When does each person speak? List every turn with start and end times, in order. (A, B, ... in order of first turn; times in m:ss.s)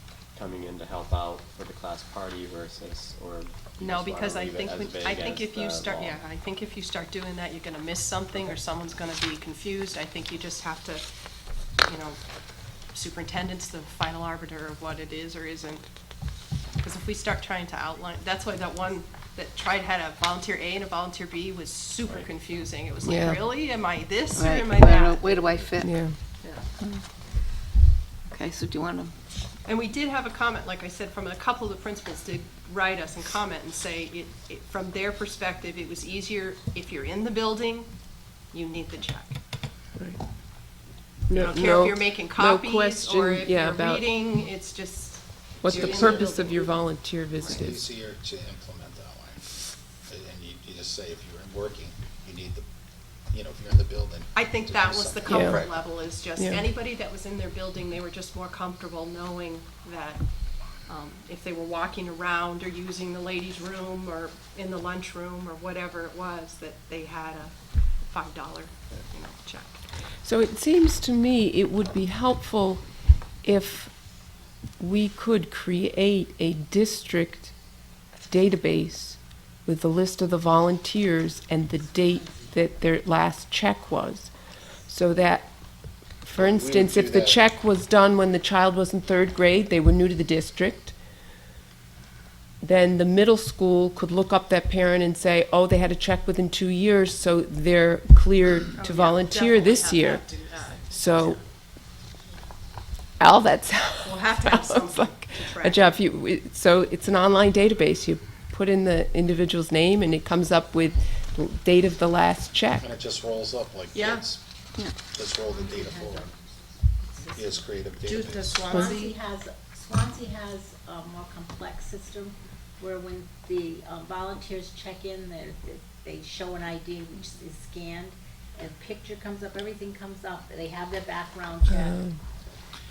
0:00.3-0:06.2 A
0:03.8-0:11.0 B
0:11.8-0:12.2 B
0:12.9-0:15.9 B
0:16.8-0:25.7 B
0:23.0-0:23.6 C
0:24.3-0:26.0 D
0:25.8-0:26.1 C
0:26.4-0:26.7 B
0:28.3-0:29.2 D
0:29.6-0:37.9 B
0:38.5-0:39.4 B
0:41.3-0:44.1 C
0:41.3-0:47.6 B
0:45.6-0:47.8 C
0:45.6-0:46.6 E
0:47.5-0:52.6 E
0:53.3-0:55.9 E
0:54.3-1:00.2 B
0:55.3-0:55.6 C
0:56.4-0:56.6 C
1:00.8-1:07.6 B
1:08.1-1:09.8 B
1:10.2-1:12.8 C
1:13.4-1:13.9 C
1:14.8-1:17.5 C
1:18.3-1:24.3 C
1:24.9-1:25.5 C
1:26.2-1:30.9 C
1:26.4-1:27.4 E
1:32.6-1:40.2 C
1:38.7-1:40.8 B
1:40.9-1:41.4 C
1:43.2-1:52.8 C
1:44.0-1:46.0 B
1:52.8-1:54.4 E
1:53.9-1:54.2 B
1:55.1-1:56.3 E
1:55.4-1:56.4 F
1:57.0-1:57.8 F
1:57.3-1:58.7 E
1:58.0-1:59.2 B
1:58.7-2:12.1 F
2:11.7-2:12.2 C